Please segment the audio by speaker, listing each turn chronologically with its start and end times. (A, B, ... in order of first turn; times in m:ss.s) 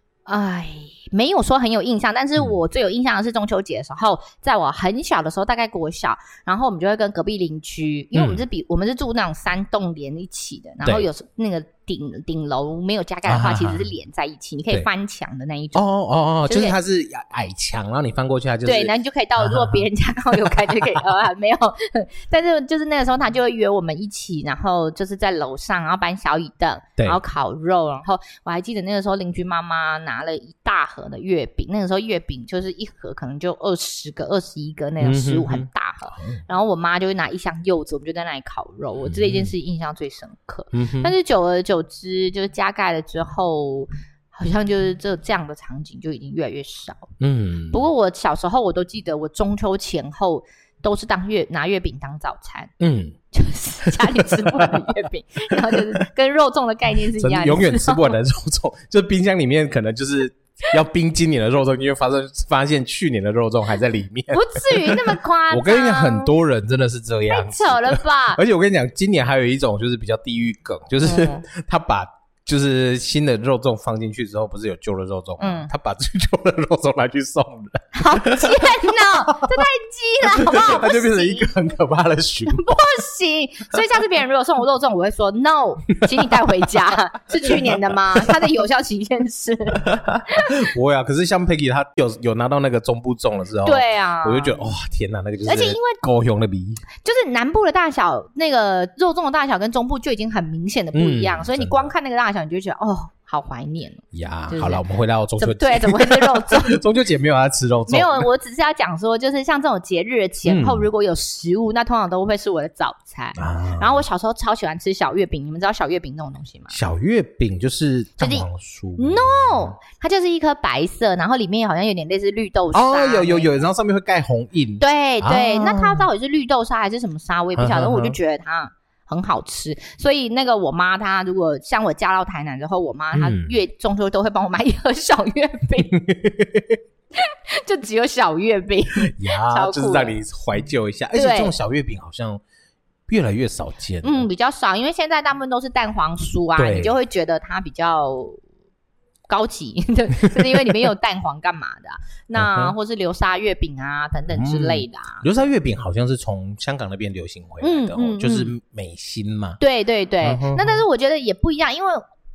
0:00.3-0:15.9 A
0:08.1-0:08.4 B
0:10.8-0:11.1 B
0:13.3-0:13.9 B
0:15.8-0:19.9 B
0:16.4-0:16.8 A
0:18.6-0:47.1 A
0:35.0-0:36.4 B
0:39.0-0:39.5 B
0:40.7-0:41.1 B
0:47.2-0:47.8 B
0:47.7-0:52.7 A
0:52.8-0:53.2 B
0:53.3-0:58.1 A
0:53.8-0:54.4 B
0:57.2-1:19.6 B
1:04.3-1:06.3 A
1:07.3-1:08.4 A
1:11.0-1:11.5 A
1:15.4-1:15.7 A
1:18.0-1:21.5 A
1:20.3-1:22.8 B
1:22.5-1:30.6 A
1:29.8-1:36.8 B
1:33.6-1:34.6 A
1:35.4-1:36.0 A
1:37.0-1:44.8 A
1:40.9-1:41.9 B
1:44.1-1:48.3 B
1:45.4-1:46.8 A
1:47.9-1:56.8 A
1:50.4-1:50.9 B
1:53.4-1:54.0 B
1:56.7-1:59.8 B
1:58.2-1:58.5 A
1:59.0-2:03.6 A
2:02.7-2:06.1 B
2:04.8-2:16.0 A
2:07.6-2:08.2 B
2:13.1-2:13.6 B
2:16.0-2:16.7 B
2:17.2-2:20.2 A
2:19.1-2:22.4 B
2:21.1-2:21.6 A
2:23.1-2:24.3 B
2:24.0-2:28.4 A
2:26.6-2:27.0 B
2:29.3-2:35.2 A
2:30.3-2:30.9 B
2:32.4-2:32.8 B
2:34.3-2:39.6 B
2:37.6-2:38.5 A
2:39.6-2:42.0 A
2:40.2-2:40.9 B